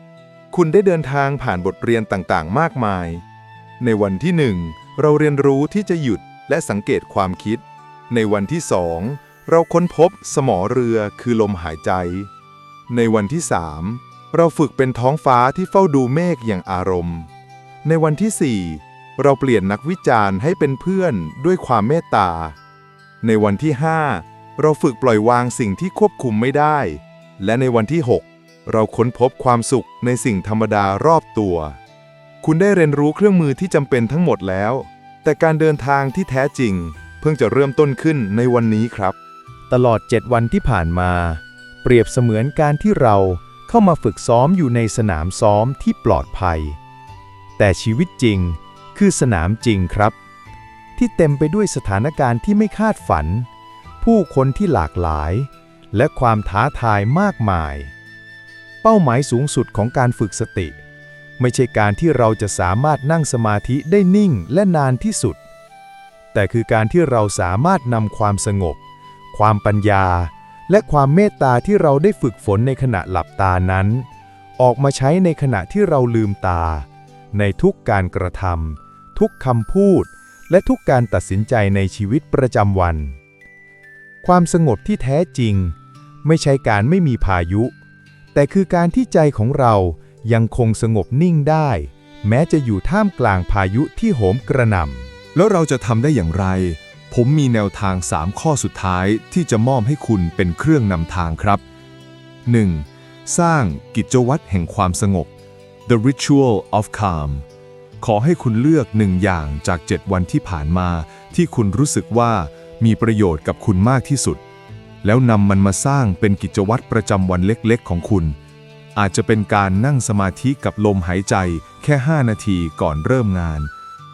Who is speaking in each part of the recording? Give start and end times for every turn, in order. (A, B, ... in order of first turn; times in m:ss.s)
0:00.5-0:03.2 A
0:03.8-0:04.5 B
0:03.8-0:12.3 A
0:06.2-0:06.4 B
0:12.9-0:17.3 A
0:17.8-0:22.5 A
0:17.8-0:18.3 B
0:19.2-0:19.6 B
0:23.2-0:31.8 A
0:23.2-0:23.6 B
0:27.5-0:28.2 B
0:32.4-0:39.2 A
0:39.7-0:46.8 C
0:47.6-0:50.2 C
0:51.0-0:53.5 C
0:54.0-0:57.9 C
0:58.8-1:00.8 C
1:01.4-1:05.4 C
1:06.3-1:08.8 C
1:09.3-1:14.1 C
1:14.6-1:23.2 C
1:24.2-1:27.8 C
1:28.3-1:35.1 C
1:35.3-1:41.6 B
1:42.5-1:45.3 B
1:45.9-1:47.4 B
1:48.0-1:54.4 B
1:55.0-1:58.4 B
1:59.0-2:03.7 B